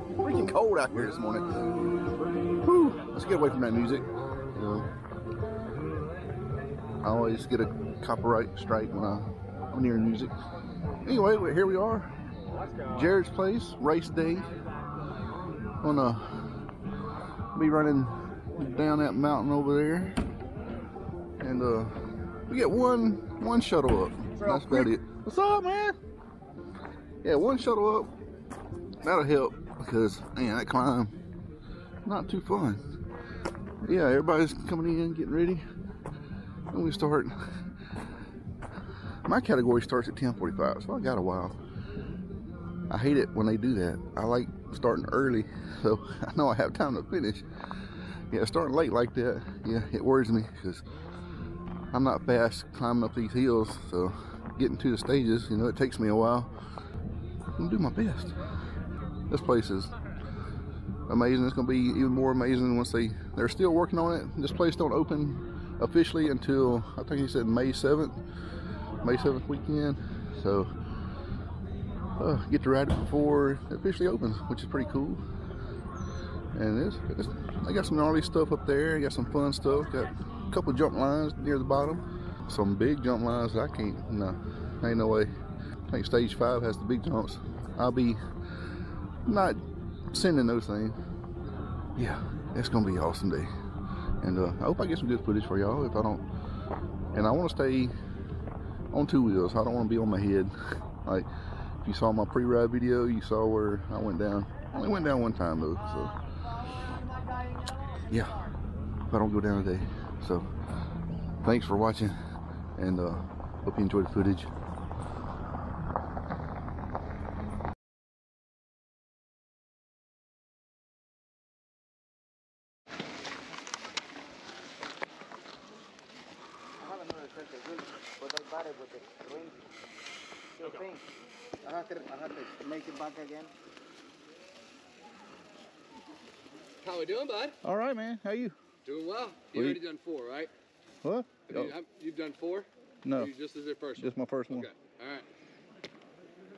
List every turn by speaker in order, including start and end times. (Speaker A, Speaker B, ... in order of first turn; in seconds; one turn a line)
Speaker A: 0.2-1.8
Speaker A: 2.5-4.9
Speaker A: 7.0-10.3
Speaker A: 11.0-12.1
Speaker A: 12.8-14.5
Speaker A: 15.8-16.6
Speaker A: 17.5-20.2
Speaker A: 21.4-26.0
Speaker A: 27.2-28.1
Speaker A: 29.0-31.1
Speaker A: 32.0-32.8
Speaker A: 33.8-35.6
Speaker A: 36.7-37.4
Speaker A: 39.2-41.6
Speaker A: 42.9-47.5
Speaker A: 48.3-50.9
Speaker A: 51.9-56.5
Speaker A: 57.6-58.4
Speaker A: 59.3-60.0
Speaker A: 61.1-68.2
Speaker A: 69.0-70.7
Speaker A: 72.2-75.2
Speaker A: 76.5-85.3
Speaker A: 85.9-88.2
Speaker A: 89.3-91.0
Speaker A: 92.0-93.5
Speaker A: 94.2-96.2
Speaker A: 97.1-98.0
Speaker A: 98.9-100.5
Speaker A: 101.8-106.1
Speaker A: 108.1-108.5
Speaker A: 109.1-110.5
Speaker A: 111.4-112.2
Speaker A: 112.8-114.5
Speaker B: 126.8-129.6
Speaker B: 131.7-133.5
Speaker C: 136.8-137.6
Speaker A: 137.6-138.6
Speaker C: 138.8-140.5
Speaker A: 139.6-139.8
Speaker A: 141.0-141.7
Speaker C: 141.5-145.3
Speaker A: 143.1-143.3
Speaker A: 144.0-144.7